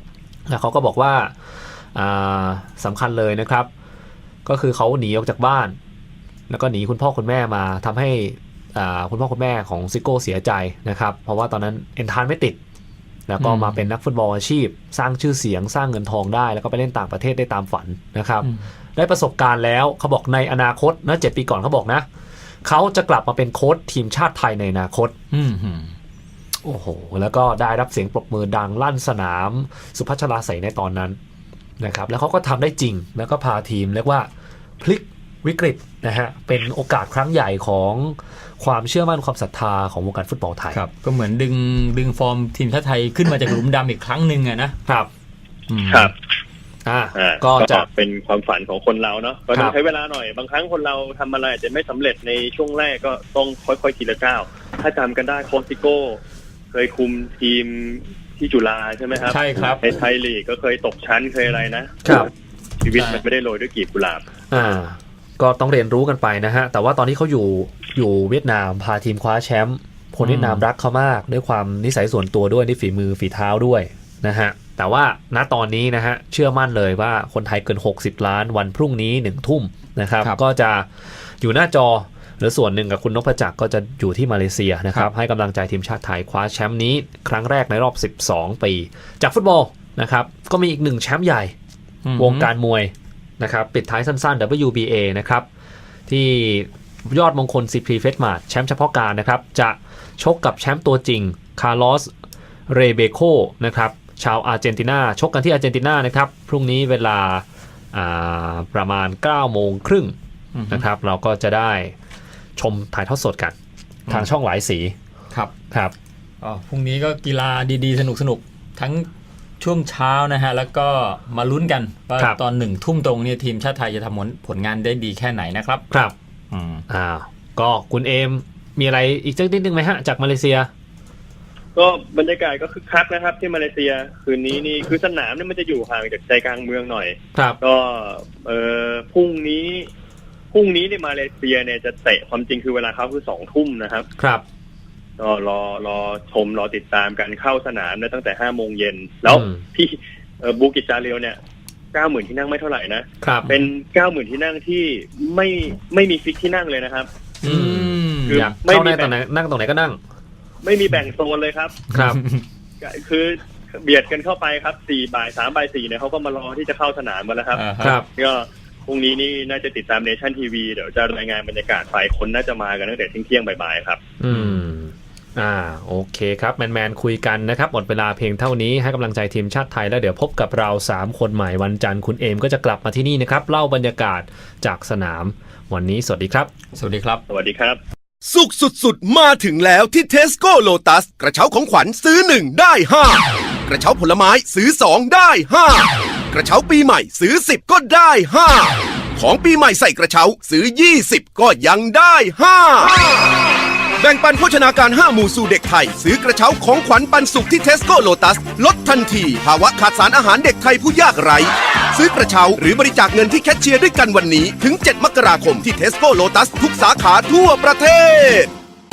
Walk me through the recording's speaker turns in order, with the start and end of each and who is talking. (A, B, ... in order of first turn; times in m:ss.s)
0:00.5-0:01.4 A
0:01.9-0:03.7 A
0:04.4-0:05.8 A
0:06.5-0:12.6 A
0:13.3-0:22.1 A
0:13.4-0:13.8 B
0:22.6-0:25.2 A
0:25.3-0:25.9 B
0:26.6-0:31.2 A
0:31.8-0:34.3 A
0:34.8-0:40.8 A
0:40.7-0:44.8 B
0:45.7-0:46.1 B
0:46.8-0:47.9 A
0:47.2-0:56.2 C
0:56.7-1:02.3 C
0:59.3-0:59.8 B
1:02.0-1:02.3 A
1:02.8-1:04.2 C
1:03.0-1:03.2 B
1:04.5-1:31.6 A
1:10.2-1:10.6 B
1:32.0-1:32.5 B
1:32.2-1:35.5 A
1:36.1-1:42.1 A
1:42.7-1:50.2 A
1:50.6-1:50.9 B
1:50.7-1:52.0 A
1:52.6-1:53.6 A
1:54.1-1:55.0 A
1:56.4-1:59.1 B
1:59.6-2:05.8 B
2:06.5-2:06.8 B
2:06.9-2:10.7 A
2:11.8-2:19.9 C
2:17.3-2:17.6 A
2:20.5-2:24.1 C
2:24.2-2:24.4 A
2:25.2-2:31.4 C
2:29.3-2:29.6 A
2:31.9-2:37.1 C
2:33.2-2:33.5 A
2:37.4-2:38.5 B
2:37.4-2:40.0 A
2:38.3-2:39.1 C
2:40.6-2:41.8 C
2:41.9-2:42.2 A
2:41.9-2:42.4 B
2:42.8-2:47.6 C
2:47.6-2:48.0 B
2:47.8-2:48.1 A
2:48.2-2:54.0 C
2:54.2-3:06.5 A
2:54.3-2:54.6 B
3:06.8-3:07.2 B
3:07.3-3:07.8 C
3:08.2-3:23.1 D
3:24.0-3:38.5 D